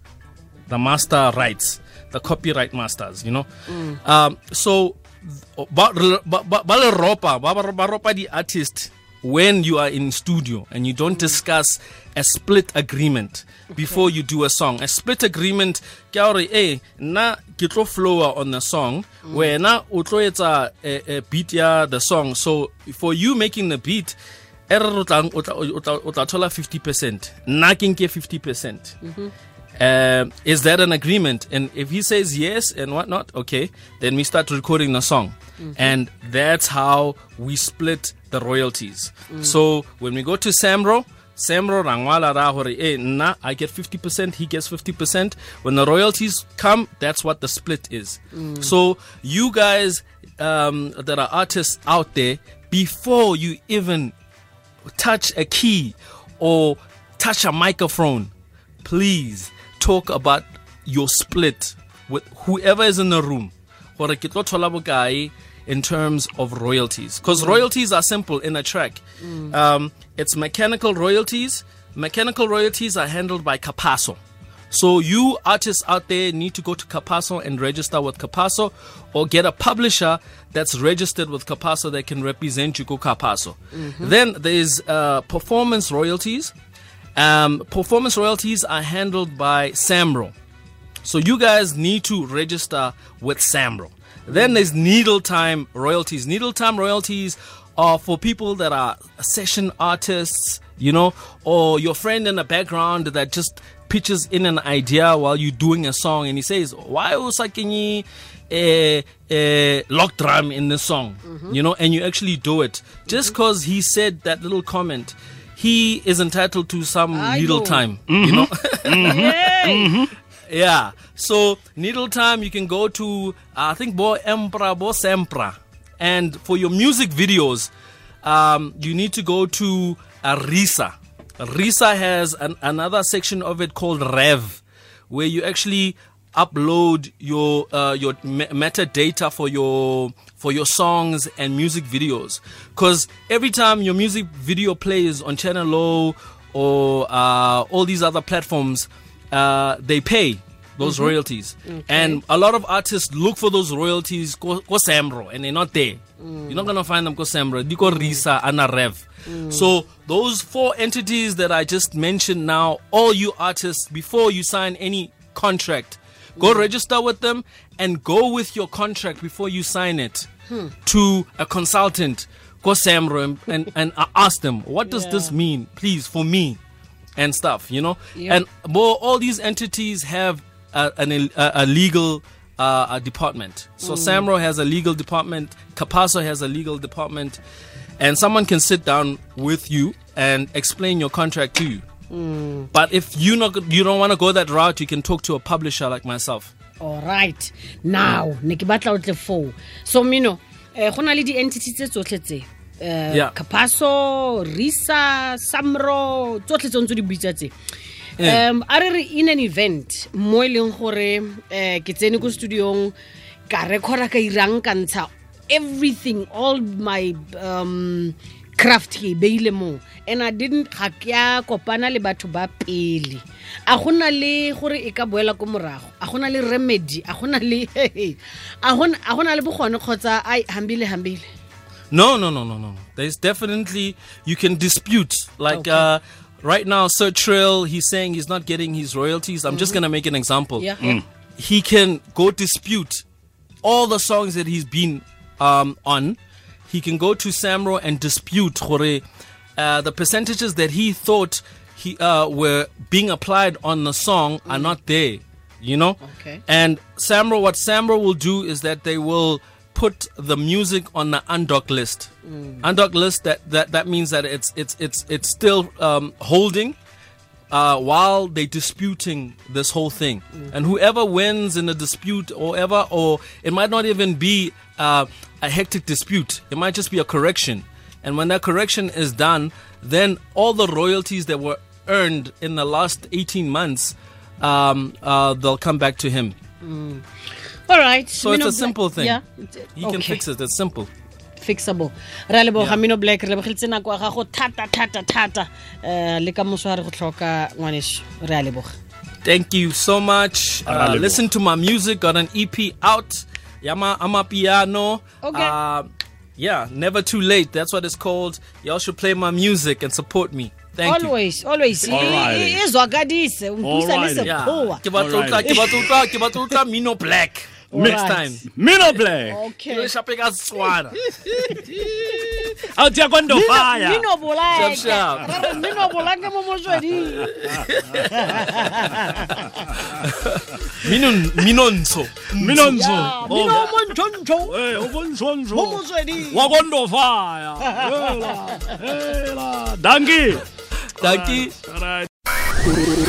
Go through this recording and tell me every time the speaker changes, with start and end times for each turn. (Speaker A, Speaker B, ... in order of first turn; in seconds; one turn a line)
Speaker A: 0.7-24.2
Speaker B: 3.7-4.0
Speaker B: 13.7-14.0
Speaker A: 24.7-29.0
Speaker B: 29.0-29.3
Speaker A: 29.8-54.1
Speaker B: 35.6-35.9
Speaker B: 48.3-48.7
Speaker A: 54.9-58.3
Speaker A: 58.8-74.2
Speaker B: 67.3-67.6
Speaker B: 69.2-69.5
Speaker A: 74.7-86.5
Speaker B: 83.7-84.1
Speaker A: 87.2-90.3
Speaker A: 91.0-119.4
Speaker B: 94.3-94.5
Speaker B: 111.2-111.5
Speaker B: 117.1-117.8
Speaker C: 118.1-120.1
Speaker B: 119.0-119.9
Speaker A: 120.5-127.7
Speaker A: 128.2-170.3
Speaker B: 150.8-151.1
Speaker B: 151.7-152.2
Speaker B: 156.2-156.7
Speaker B: 157.8-158.2
Speaker B: 159.2-159.7
Speaker B: 166.4-166.7
Speaker B: 170.5-170.7
Speaker A: 170.8-176.6
Speaker B: 174.9-175.3
Speaker A: 177.2-187.4
Speaker B: 178.1-178.4
Speaker B: 183.8-184.2
Speaker A: 188.0-191.8
Speaker B: 192.1-192.7
Speaker A: 192.7-196.5
Speaker B: 196.8-207.5
Speaker B: 208.2-212.9
Speaker B: 213.5-231.2
Speaker A: 231.9-240.8
Speaker B: 235.5-235.9
Speaker B: 239.5-239.8
Speaker B: 240.6-241.0
Speaker C: 240.8-241.0
Speaker A: 241.4-243.0
Speaker A: 243.6-249.0
Speaker A: 249.6-266.8
Speaker B: 254.5-254.7
Speaker B: 256.0-256.4
Speaker B: 262.2-262.6
Speaker A: 267.5-286.4
Speaker B: 286.6-287.0
Speaker B: 287.7-290.2
Speaker A: 288.2-289.2
Speaker A: 289.8-290.9
Speaker B: 291.4-298.7
Speaker A: 299.2-311.1
Speaker C: 300.6-301.2
Speaker B: 305.2-305.5
Speaker B: 310.8-316.5
Speaker C: 311.9-312.6
Speaker A: 311.9-312.4
Speaker C: 313.6-315.6
Speaker A: 314.2-318.4
Speaker B: 317.7-318.4
Speaker C: 317.7-319.4
Speaker B: 319.2-319.9
Speaker A: 319.7-321.1
Speaker B: 321.3-322.5
Speaker C: 321.6-324.1
Speaker B: 323.3-327.3
Speaker A: 324.5-325.6
Speaker A: 327.1-328.6
Speaker B: 328.0-329.8
Speaker A: 329.9-333.7
Speaker C: 332.3-333.8
Speaker B: 332.6-334.6
Speaker C: 334.5-340.4
Speaker B: 335.5-336.6
Speaker B: 337.6-338.8
Speaker A: 340.9-341.6
Speaker C: 341.0-342.1